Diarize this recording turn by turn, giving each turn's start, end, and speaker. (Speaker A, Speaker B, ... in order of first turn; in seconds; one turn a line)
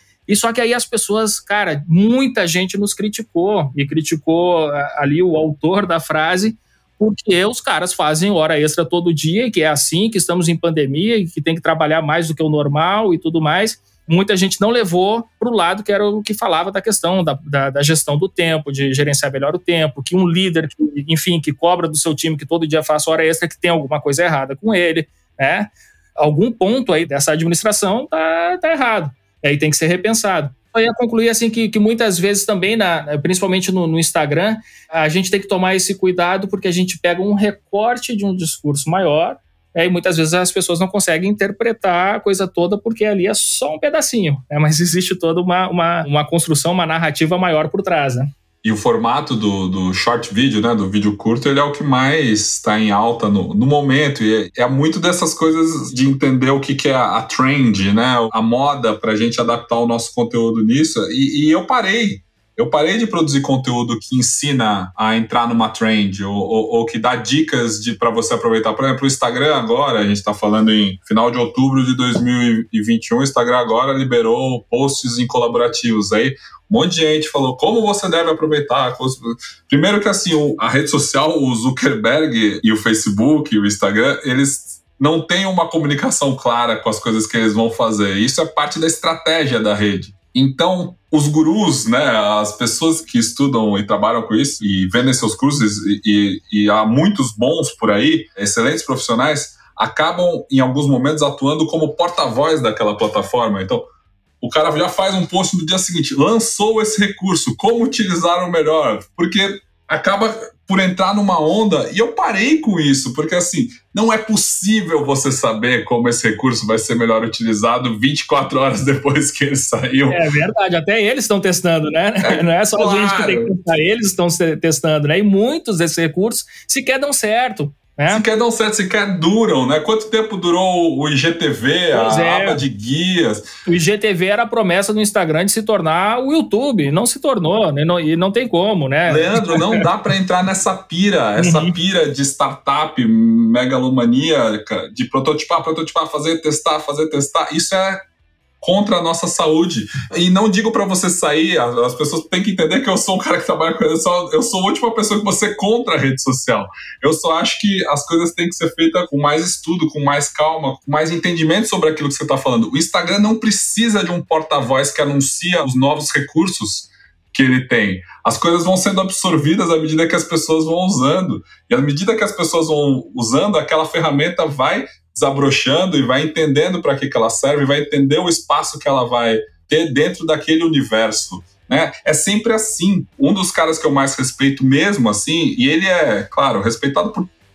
Speaker A: 0.3-48.3
Speaker B: 48.6-103.8
Speaker B: 104.4-120.2
Speaker A: 120.1-128.2
Speaker B: 122.2-123.5
Speaker B: 128.1-133.5
Speaker A: 131.9-132.6
Speaker A: 133.7-139.8
Speaker B: 139.1-148.0
Speaker A: 141.4-141.7
Speaker B: 148.6-187.3